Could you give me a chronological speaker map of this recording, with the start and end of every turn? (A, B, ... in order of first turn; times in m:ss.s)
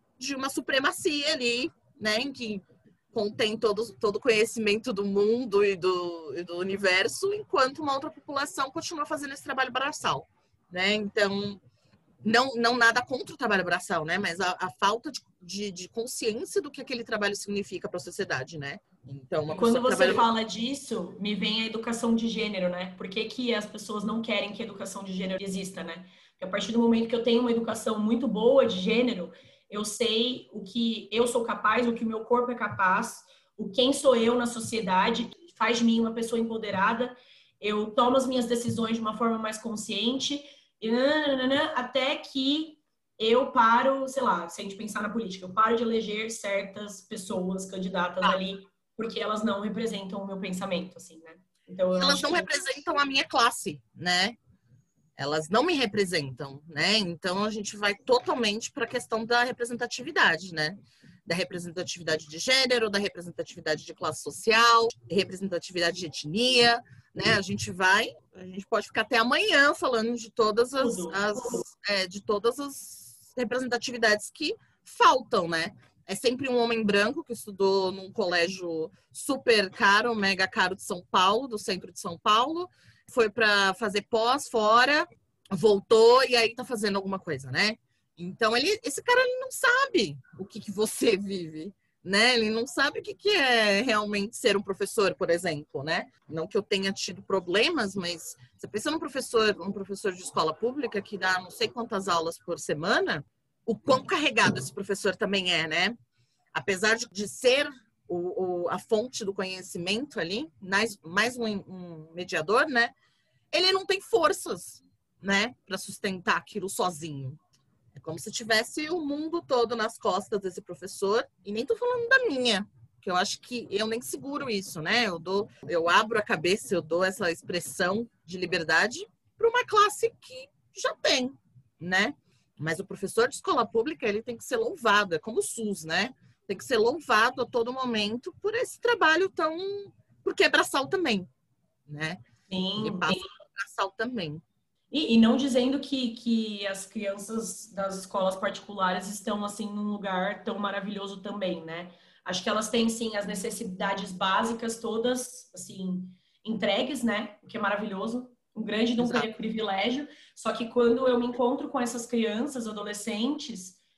0:00.2-0:11.6 A
0:12.2-0:20.2 A
0:19.5-0:52.5 B
0:52.0-0:54.4 A
0:55.2-1:46.0 A
1:10.8-1:11.6 B
1:46.5-1:52.9 A
1:53.5-1:57.4 A
1:58.0-2:21.3 A
2:21.9-2:22.2 A
2:22.5-2:23.2 B
2:22.8-2:24.4 A
2:24.9-2:43.8 B
2:39.0-2:39.3 A